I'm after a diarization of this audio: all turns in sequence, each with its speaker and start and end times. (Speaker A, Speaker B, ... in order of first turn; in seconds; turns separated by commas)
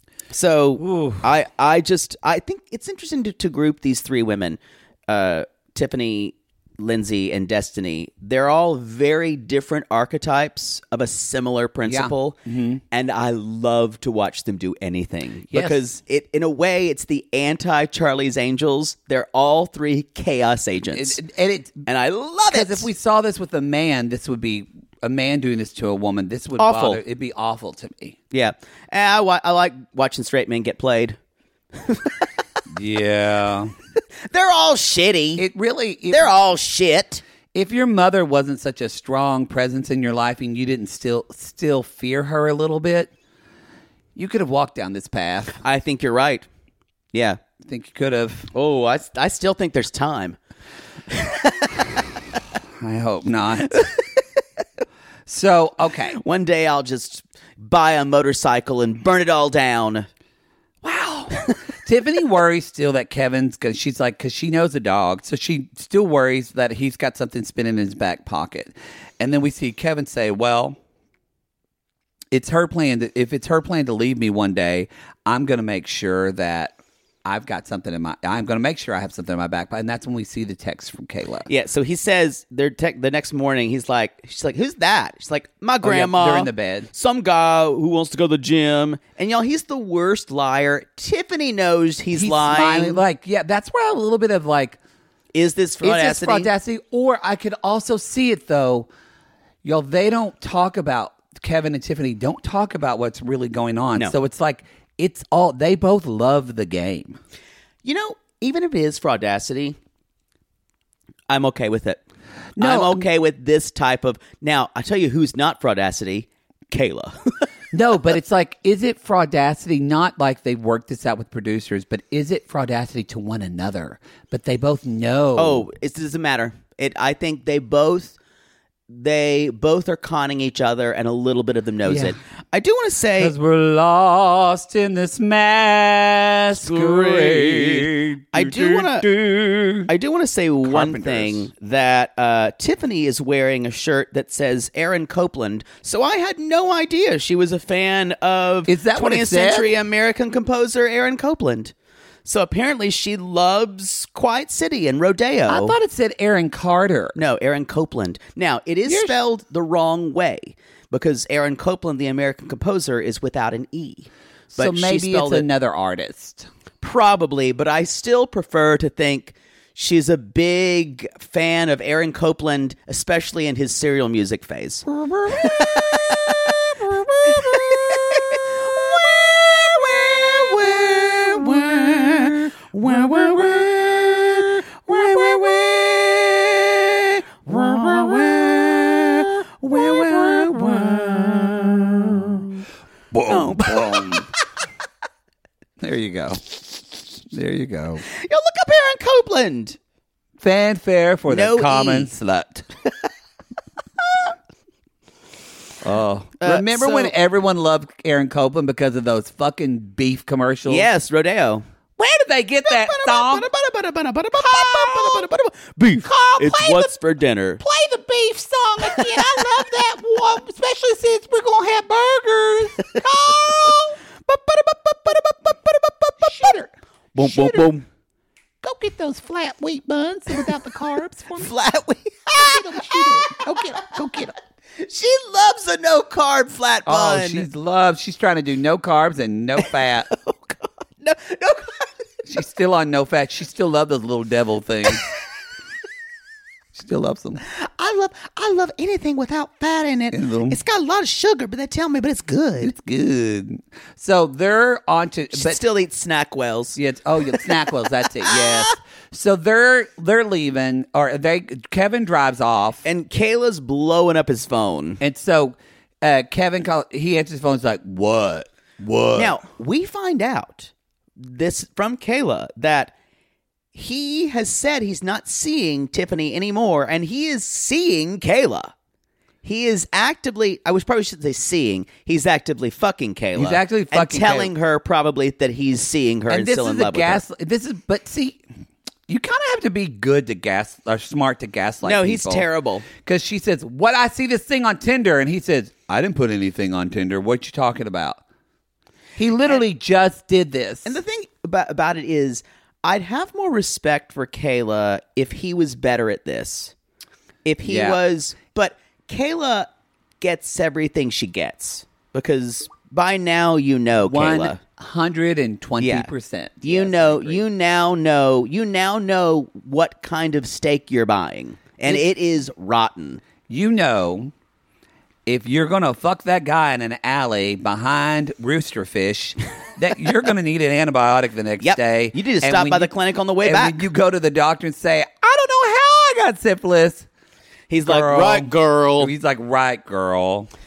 Speaker A: 0.3-12.4, Speaker B: 0.8-1.3, Speaker B: 11.9-12.8, Speaker A: 12.9-21.2, Speaker B: 15.5-15.8, Speaker B: 20.9-21.9, Speaker A: 21.9-22.9, Speaker B: 22.5-28.2, Speaker A: 26.6-27.0, Speaker A: 28.3-31.2, Speaker A: 31.7-32.3, Speaker B: 32.7-33.7, Speaker A: 34.3-35.4, Speaker B: 35.4-36.3, Speaker A: 36.1-37.2, Speaker B: 37.5-43.1, Speaker B: 44.2-45.6, Speaker A: 45.6-46.5, Speaker A: 47.1-47.4, Speaker B: 47.6-48.5, Speaker A: 48.5-50.4, Speaker A: 51.1-52.0, Speaker B: 52.8-53.9, Speaker A: 53.7-54.0, Speaker B: 55.3-56.2, Speaker A: 56.2-60.1, Speaker B: 60.8-70.8, Speaker B: 72.3-81.5, Speaker A: 81.5-93.0, Speaker B: 85.8-86.9, Speaker B: 92.1-94.8, Speaker A: 95.3-96.5, Speaker B: 95.8-98.9, Speaker B: 99.6-107.2, Speaker A: 107.8-109.8, Speaker A: 111.3-112.0, Speaker B: 112.6-113.1, Speaker A: 112.6-117.5, Speaker B: 117.7-125.7, Speaker A: 125.4-128.2, Speaker A: 128.9-133.3, Speaker B: 131.8-132.2, Speaker B: 133.2-139.9, Speaker A: 136.5-139.1, Speaker A: 139.9-151.7, Speaker B: 140.6-141.5, Speaker B: 148.7-149.7, Speaker A: 152.3-155.8, Speaker B: 155.5-157.2, Speaker A: 157.2-165.5, Speaker B: 158.9-159.1, Speaker B: 164.6-166.5, Speaker A: 166.8-176.7, Speaker B: 175.0-178.2, Speaker A: 177.2-192.6, Speaker B: 182.9-185.7, Speaker B: 187.5-192.4, Speaker B: 193.1-194.3, Speaker A: 193.3-194.3, Speaker B: 195.8-196.6, Speaker B: 197.3-198.0, Speaker A: 198.1-199.8, Speaker B: 200.4-202.7, Speaker A: 201.3-202.1, Speaker B: 205.8-210.9, Speaker A: 206.4-207.1, Speaker A: 210.7-211.7, Speaker B: 212.0-213.5, Speaker A: 212.7-217.6, Speaker B: 214.4-215.3, Speaker B: 216.0-216.9, Speaker B: 217.6-225.6, Speaker A: 218.9-219.4, Speaker A: 224.3-226.5, Speaker B: 226.2-227.8, Speaker A: 227.2-227.8, Speaker B: 228.6-231.5, Speaker A: 231.4-233.6, Speaker B: 232.3-234.3, Speaker A: 234.8-237.5, Speaker B: 236.9-240.1, Speaker A: 239.6-241.9, Speaker B: 242.3-245.1, Speaker B: 246.8-247.4, Speaker A: 247.5-252.7, Speaker B: 250.1-250.6, Speaker B: 252.6-255.6, Speaker A: 255.3-256.8, Speaker B: 256.8-262.8, Speaker A: 258.2-258.8, Speaker A: 262.8-265.0, Speaker B: 265.0-269.4, Speaker A: 269.1-272.9, Speaker A: 273.7-278.7, Speaker A: 279.4-287.2, Speaker B: 283.4-284.5, Speaker B: 286.3-288.4, Speaker B: 289.1-292.4, Speaker A: 291.8-292.9, Speaker B: 293.0-298.2, Speaker B: 299.2-301.0, Speaker A: 300.9-306.7, Speaker A: 307.4-309.7, Speaker B: 307.6-308.0, Speaker A: 310.2-314.6, Speaker B: 314.0-317.4, Speaker A: 315.8-316.1, Speaker A: 316.6-323.2, Speaker B: 323.5-324.3, Speaker B: 325.3-337.1, Speaker A: 331.6-333.8, Speaker A: 337.7-339.1, Speaker B: 337.9-340.5